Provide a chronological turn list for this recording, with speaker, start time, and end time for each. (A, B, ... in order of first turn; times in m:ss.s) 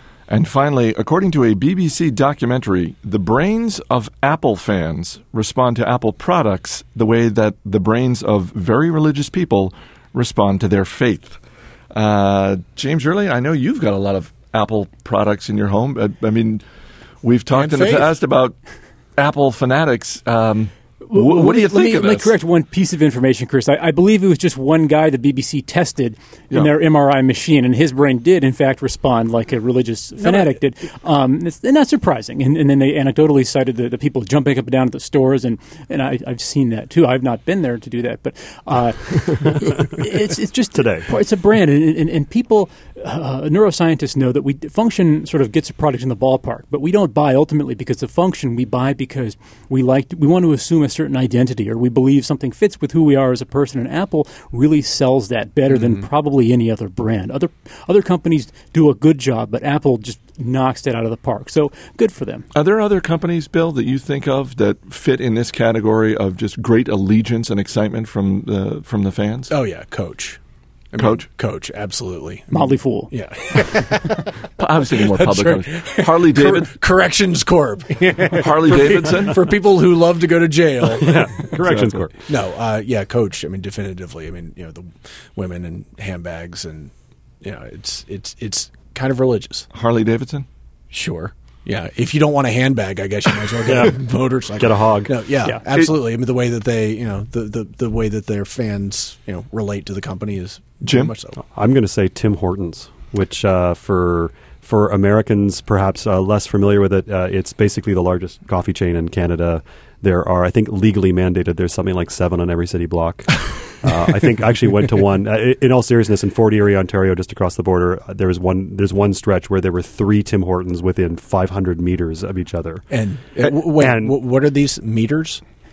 0:00.3-0:11.4 A
0:11.9-0:16.6 A
0:17.2-0:18.6 A
0:17.5-0:18.2 B
0:19.2-0:22.3 A
0:21.0-1:02.5 C
0:40.7-0:41.1 D
1:02.5-1:09.5 A
1:09.5-1:10.4 B
1:10.9-1:14.3 B
1:11.0-1:11.2 A
1:12.5-1:13.1 C
1:14.6-1:16.7 A
1:15.0-1:29.7 B
1:18.4-1:19.4 A
1:20.9-1:22.2 D
1:29.7-1:30.4 A
1:30.9-1:41.4 B
1:33.7-1:34.0 D
1:34.6-1:35.1 D
1:40.8-1:41.1 A
1:41.5-2:02.9 D
2:02.9-2:05.4 B
2:03.5-2:04.2 D